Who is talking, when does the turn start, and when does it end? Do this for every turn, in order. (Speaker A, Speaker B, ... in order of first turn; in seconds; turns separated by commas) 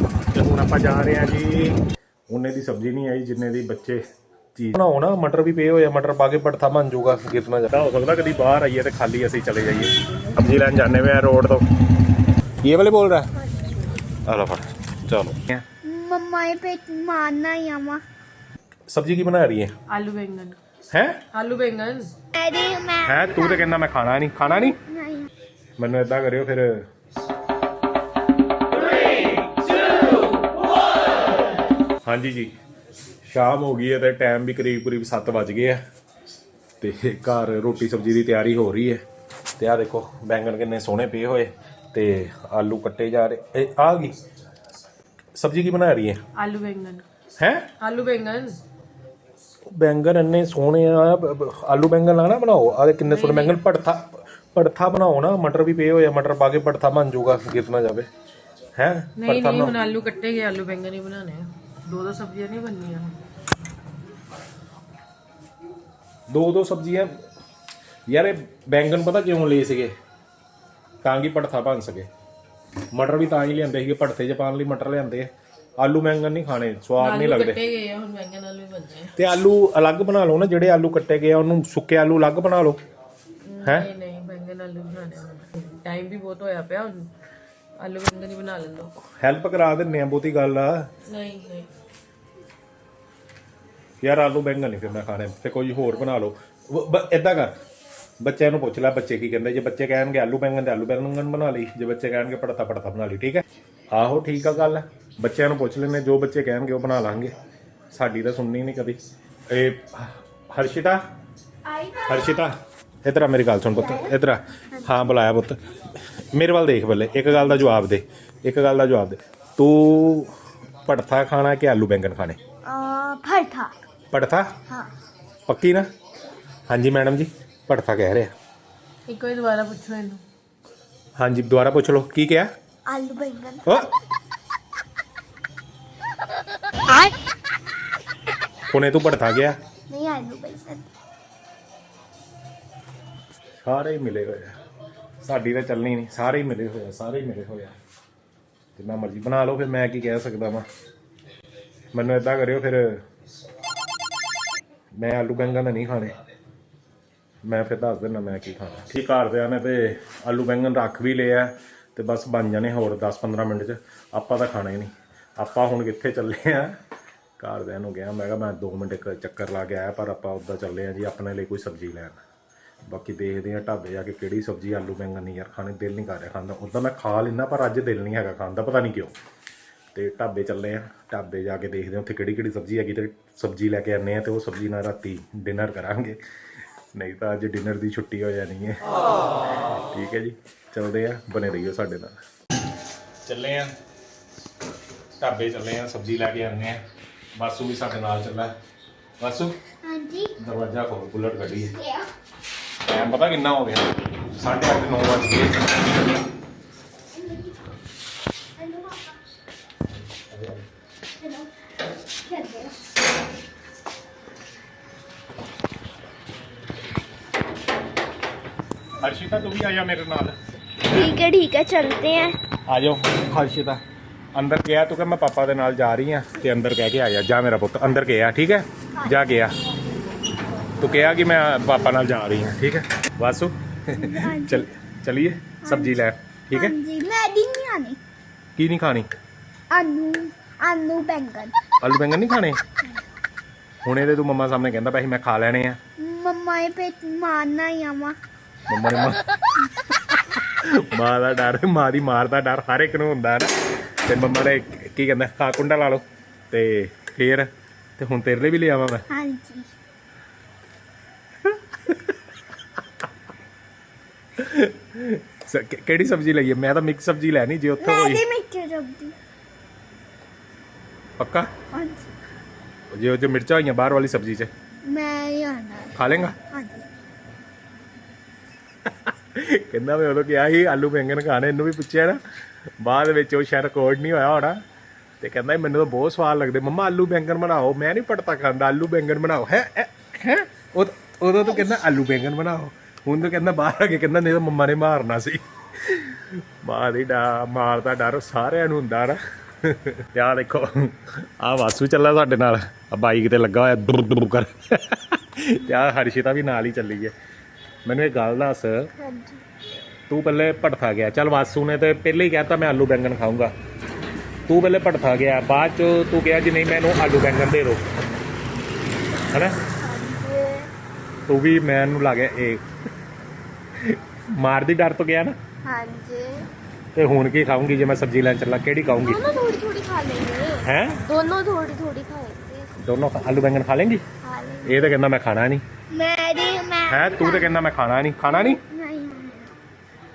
Speaker A: 0.3-4.0, Speaker A: 4.5-11.6, Speaker A: 12.6-13.3, Speaker A: 14.2-15.6, Speaker B: 15.8-18.0, Speaker A: 18.9-19.7, Speaker C: 19.9-20.6, Speaker A: 20.9-21.2, Speaker C: 21.3-22.1, Speaker B: 22.3-23.7, Speaker A: 23.0-24.8, Speaker B: 24.5-25.3, Speaker A: 25.8-26.9, Speaker A: 32.0-32.5, Speaker A: 33.2-35.8, Speaker A: 36.8-39.0, Speaker A: 39.6-44.1, Speaker A: 45.4-46.2, Speaker C: 46.4-47.0, Speaker A: 47.4-47.7, Speaker C: 47.8-48.6, Speaker A: 49.7-58.1, Speaker C: 53.0-53.6, Speaker A: 58.8-59.8, Speaker C: 59.2-63.2, Speaker A: 66.3-67.2, Speaker A: 68.1-69.9, Speaker A: 71.0-72.1, Speaker A: 72.9-75.3, Speaker A: 75.8-77.6, Speaker C: 77.0-79.1, Speaker A: 79.2-82.8, Speaker C: 83.5-87.1, Speaker A: 83.6-83.9, Speaker C: 87.8-88.9, Speaker A: 89.2-90.9, Speaker C: 91.1-91.7, Speaker A: 94.0-97.5, Speaker A: 98.2-107.3, Speaker A: 107.9-109.0, Speaker A: 109.5-111.0, Speaker B: 111.7-112.4, Speaker A: 112.0-115.6, Speaker B: 113.8-114.1, Speaker B: 114.7-115.1, Speaker A: 116.2-120.3, Speaker A: 120.8-122.4, Speaker B: 122.6-123.7, Speaker A: 124.1-124.6, Speaker A: 125.5-125.9, Speaker A: 126.7-128.3, Speaker C: 129.1-130.2, Speaker A: 131.2-132.5, Speaker B: 132.9-133.9, Speaker A: 138.7-139.6, Speaker B: 139.9-140.9, Speaker A: 143.6-144.6, Speaker A: 145.2-147.8, Speaker A: 148.8-150.7, Speaker A: 151.9-153.0, Speaker A: 155.0-156.1, Speaker A: 157.4-166.8, Speaker A: 167.4-172.2, Speaker A: 172.9-179.1, Speaker A: 179.9-186.2, Speaker A: 186.9-188.9, Speaker A: 189.9-192.2, Speaker A: 193.2-193.7, Speaker A: 195.2-196.8, Speaker A: 197.4-198.5, Speaker A: 199.2-199.6, Speaker B: 199.8-200.3, Speaker A: 200.4-201.8, Speaker B: 201.8-202.1, Speaker A: 202.8-205.7, Speaker B: 207.2-207.5, Speaker B: 208.6-209.2, Speaker A: 210.1-210.7, Speaker B: 211.2-211.5, Speaker B: 212.2-212.8, Speaker A: 219.0-220.4, Speaker B: 220.9-222.4, Speaker A: 222.7-223.8, Speaker A: 224.3-229.6, Speaker B: 229.0-229.4, Speaker A: 230.8-236.8, Speaker B: 233.9-234.7, Speaker B: 235.6-238.0, Speaker A: 238.6-239.1, Speaker B: 239.7-241.6, Speaker A: 241.8-242.6, Speaker A: 243.8-245.8, Speaker B: 246.0-248.2, Speaker A: 248.7-249.3, Speaker A: 250.1-253.5, Speaker A: 254.0-259.1, Speaker B: 259.1-259.7, Speaker A: 261.4-262.1, Speaker A: 264.4-268.2, Speaker B: 267.8-269.1, Speaker A: 271.2-271.5, Speaker B: 271.7-272.1, Speaker A: 272.9-274.5, Speaker B: 274.8-276.9, Speaker A: 275.9-276.4, Speaker A: 278.9-282.2, Speaker A: 282.8-284.6, Speaker A: 285.2-307.1, Speaker B: 291.4-291.9, Speaker A: 307.9-308.9, Speaker B: 309.0-309.4, Speaker A: 310.1-313.5, Speaker A: 314.5-317.9, Speaker A: 319.3-319.6, Speaker B: 319.8-320.7, Speaker A: 321.3-322.6, Speaker A: 323.8-325.4, Speaker B: 325.6-326.5, Speaker A: 326.9-329.3, Speaker B: 329.0-332.7, Speaker A: 330.6-331.0, Speaker A: 332.8-334.0, Speaker B: 334.2-335.0, Speaker A: 334.6-335.6, Speaker B: 335.9-337.5, Speaker A: 336.9-338.6, Speaker B: 338.3-339.6